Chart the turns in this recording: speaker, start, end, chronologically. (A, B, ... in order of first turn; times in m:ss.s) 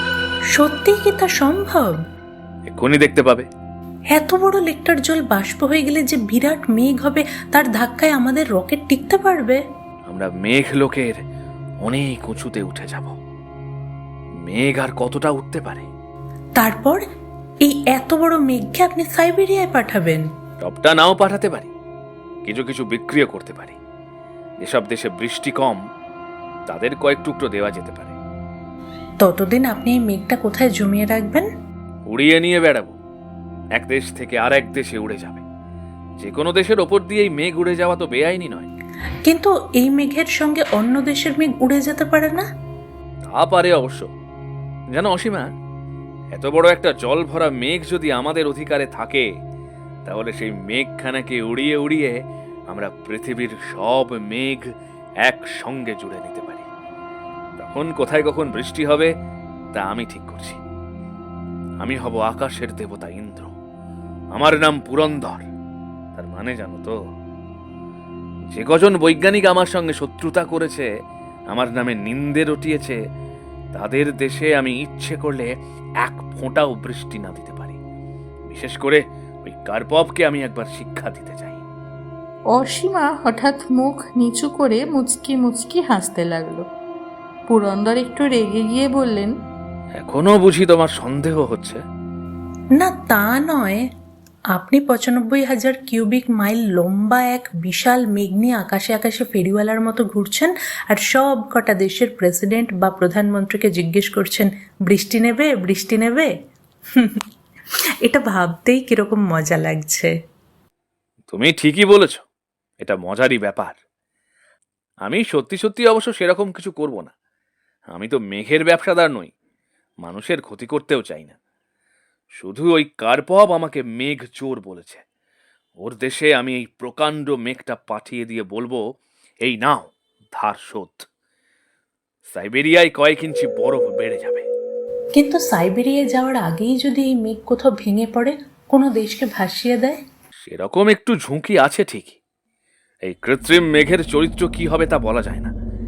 0:00.6-0:02.0 A
0:02.7-0:03.5 B
0:04.1-0:09.6 A
0:10.1-0:11.2 B
0:11.8-0:13.2 B
0:14.4-0:15.9 B
0:16.6-0:17.0 A
0:17.6-0:20.2 A
0:20.6-0:21.7 B
0:22.4-0:23.8 B
0:24.6-0:25.8 B
0:26.7-0:28.2 B
0:29.2-0:31.5 A
0:32.0-0:33.0 B
0:33.8-0:35.4 B
0:36.2-0:38.7 B
0:39.2-0:42.5 A
0:43.3-0:44.1 B
0:44.9-0:45.5 B
0:46.3-0:49.3 B
0:50.1-0:54.7 B
0:55.2-0:56.7 B
0:57.6-0:59.1 B
0:59.8-1:00.6 B
1:01.8-1:03.5 B
1:04.3-1:05.5 B
1:06.2-1:07.0 B
1:08.5-1:10.9 B
1:11.5-1:13.0 B
1:13.7-1:15.5 B
1:16.0-1:17.8 B
1:18.5-1:21.6 B
1:22.5-1:26.6 C
1:27.5-1:29.3 C
1:30.0-1:31.8 B
1:32.8-1:33.9 A
1:34.5-1:46.3 A
1:47.0-1:47.2 A
1:48.0-1:50.1 A
1:51.3-1:52.2 B
1:52.8-1:53.8 B
1:55.0-1:57.1 B
1:57.9-1:59.3 B
2:00.0-2:01.4 B
2:02.4-2:05.0 B
2:05.8-2:08.8 B
2:09.4-2:11.1 B
2:12.3-2:14.5 B
2:15.2-2:20.0 A
2:20.4-2:22.2 B
2:23.0-2:25.5 B